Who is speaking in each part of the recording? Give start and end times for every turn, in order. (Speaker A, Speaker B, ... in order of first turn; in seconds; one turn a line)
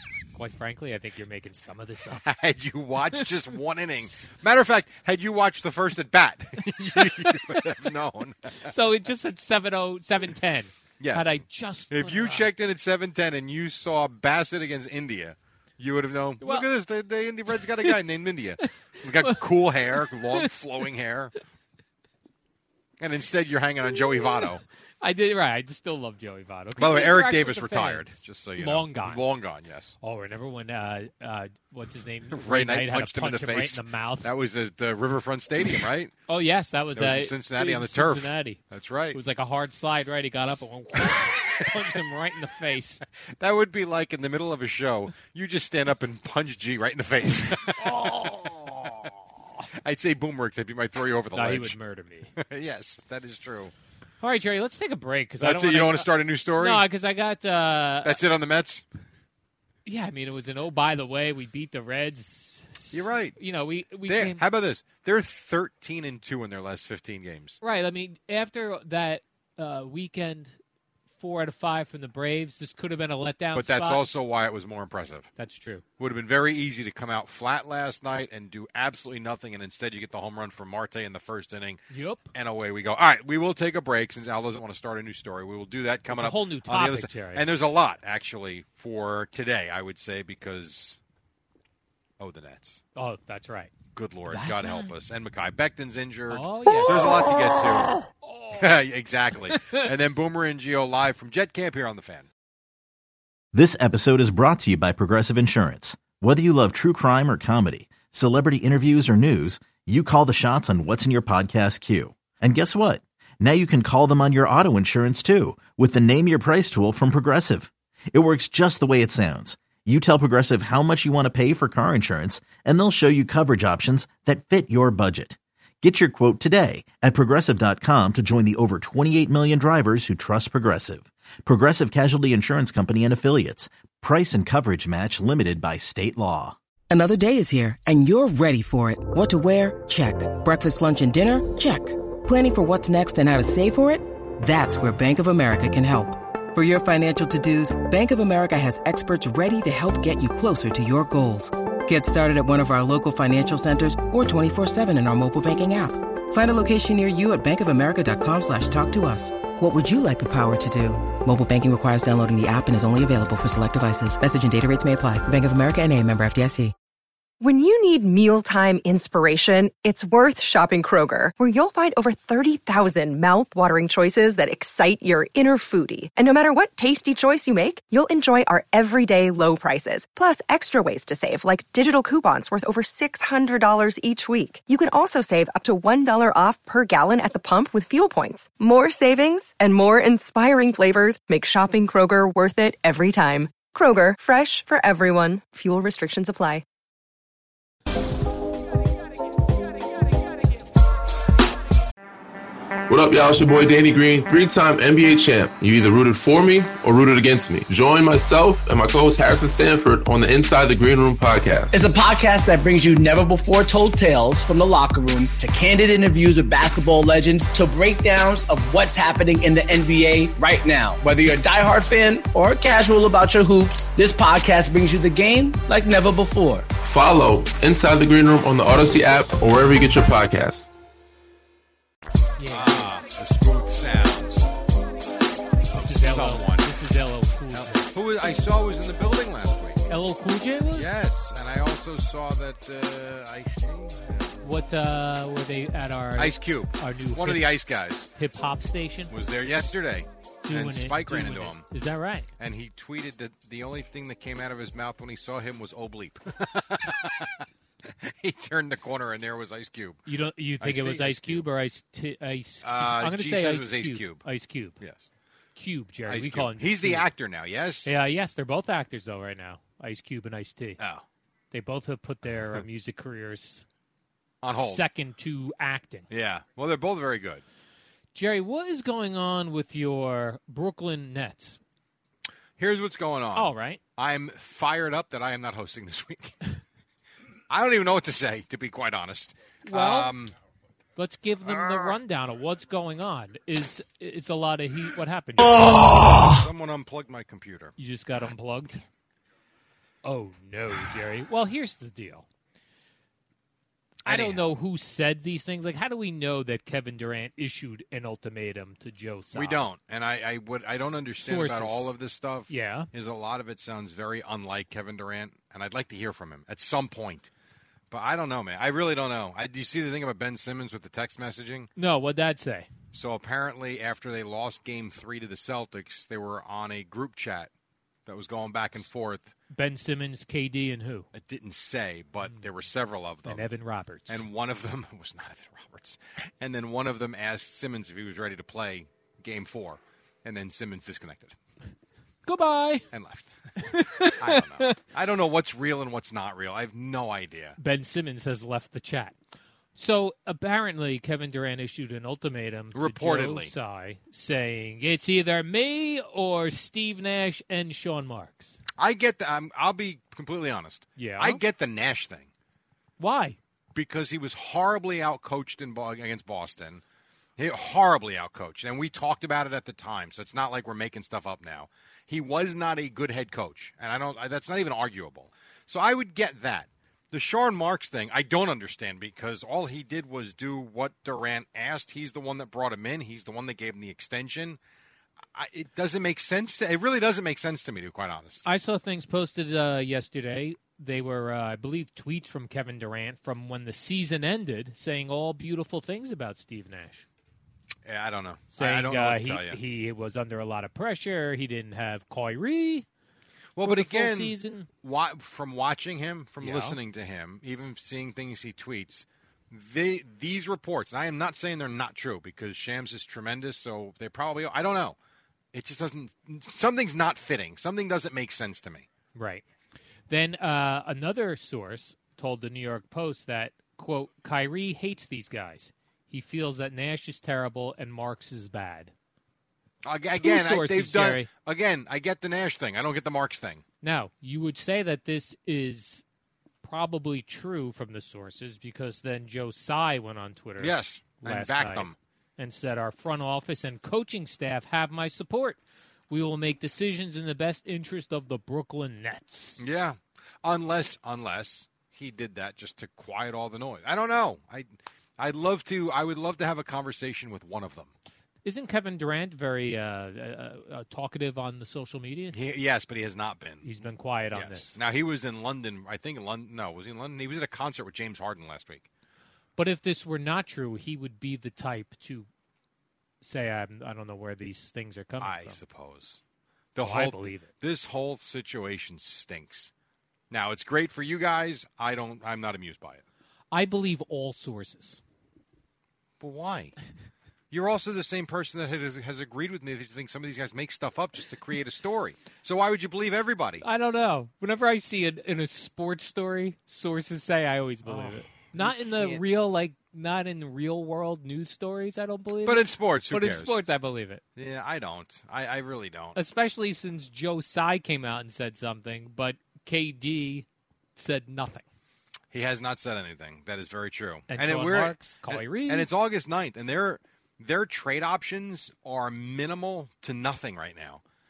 Speaker A: 0.3-2.2
Speaker B: 2.2-8.7
Speaker A: 7.0-7.6
Speaker A: 8.6-12.5
Speaker B: 11.0-21.3
Speaker A: 16.4-16.7
Speaker A: 19.9-20.5
Speaker B: 23.0-24.6
Speaker A: 23.9-24.5
Speaker A: 25.0-29.2
Speaker B: 26.8-30.0
Speaker A: 30.0-34.3
Speaker B: 32.3-36.1
Speaker A: 36.3-38.6
Speaker B: 37.0-39.2
Speaker A: 39.1-43.0
Speaker B: 41.0-41.7
Speaker B: 43.4-51.8
Speaker A: 47.8-48.6
Speaker A: 51.3-52.3
Speaker B: 52.4-53.7
Speaker A: 54.2-58.2
Speaker B: 55.4-56.9
Speaker B: 58.0-58.9
Speaker A: 59.9-64.4
Speaker B: 62.9-63.4
Speaker B: 64.1-67.6
Speaker A: 67.6-70.6
Speaker A: 71.2-74.0
Speaker B: 73.5-75.3
Speaker A: 75.4-75.8
Speaker B: 76.0-81.8
Speaker A: 81.9-82.3
Speaker B: 82.3-91.0
Speaker A: 86.1-87.5
Speaker B: 92.2-92.8
Speaker A: 93.0-93.7
Speaker B: 93.9-98.0
Speaker A: 94.3-94.9
Speaker A: 96.3-97.3
Speaker A: 98.2-98.7
Speaker B: 98.5-102.3
Speaker A: 99.5-99.8
Speaker C: 103.5-136.6
Speaker D: 136.9-166.7
Speaker E: 167.4-196.6
Speaker F: 202.9-211.8
Speaker G: 211.7-226.7
Speaker F: 226.8-230.7
Speaker A: 232.4-232.9
Speaker B: 232.5-234.5
Speaker B: 235.7-236.7
Speaker A: 235.7-237.9
Speaker B: 237.5-239.9
Speaker A: 239.9-240.9
Speaker B: 240.7-244.4
Speaker A: 244.4-247.5
Speaker B: 246.2-248.1
Speaker A: 248.2-249.1
Speaker B: 249.1-251.7
Speaker A: 250.5-252.3
Speaker B: 252.4-260.0
Speaker A: 260.1-264.8
Speaker B: 260.6-261.5
Speaker B: 262.6-264.3
Speaker A: 265.6-267.1
Speaker B: 266.1-267.9
Speaker A: 267.9-270.8
Speaker B: 270.8-271.0
Speaker A: 271.5-273.6
Speaker B: 274.4-274.8
Speaker A: 274.5-276.1
Speaker B: 276.1-277.4
Speaker A: 278.1-281.6
Speaker B: 282.6-286.4
Speaker A: 283.4-283.8
Speaker B: 287.5-290.3
Speaker A: 289.6-290.1
Speaker A: 291.0-296.2
Speaker B: 295.7-297.7
Speaker A: 297.8-298.8
Speaker A: 300.0-302.3
Speaker B: 304.1-304.5
Speaker A: 304.1-309.6
Speaker B: 309.3-317.3
Speaker A: 311.2-311.9
Speaker A: 312.5-312.9
Speaker B: 317.9-321.7
Speaker A: 321.8-322.7
Speaker B: 322.9-327.5
Speaker B: 328.1-329.3
Speaker A: 329.5-331.1
Speaker B: 331.1-333.5
Speaker A: 333.2-334.2
Speaker B: 334.1-341.4
Speaker A: 342.3-342.9
Speaker B: 342.9-347.6
Speaker A: 343.6-344.8
Speaker A: 347.6-349.1
Speaker A: 349.8-358.6
Speaker B: 352.7-353.5
Speaker B: 358.8-362.3
Speaker A: 361.0-361.4
Speaker A: 363.0-363.4
Speaker B: 363.8-366.8
Speaker B: 367.4-384.6
Speaker B: 385.4-388.5
Speaker A: 388.4-397.1
Speaker B: 397.9-399.6
Speaker A: 398.5-402.9
Speaker B: 403.6-415.0
Speaker A: 403.6-404.7
Speaker A: 406.4-406.8
Speaker B: 415.5-418.9
Speaker A: 419.1-419.4
Speaker A: 420.1-428.9
Speaker B: 429.8-433.6
Speaker A: 430.2-431.3
Speaker A: 433.8-436.0
Speaker A: 436.6-445.6
Speaker B: 440.6-442.0
Speaker A: 446.1-449.6
Speaker B: 449.6-457.9
Speaker A: 458.4-462.4
Speaker B: 462.3-463.7
Speaker A: 463.6-464.8
Speaker B: 464.3-468.9
Speaker A: 469.6-472.3
Speaker A: 473.2-475.6
Speaker B: 475.2-476.2
Speaker B: 476.8-479.7
Speaker A: 476.8-477.5
Speaker B: 480.3-483.0
Speaker A: 483.5-485.0
Speaker B: 486.2-486.8
Speaker B: 487.5-493.6
Speaker A: 493.6-504.2
Speaker B: 497.9-499.2
Speaker B: 502.4-503.6
Speaker B: 504.4-506.2
Speaker A: 506.1-511.6
Speaker B: 512.3-521.0
Speaker A: 514.3-515.9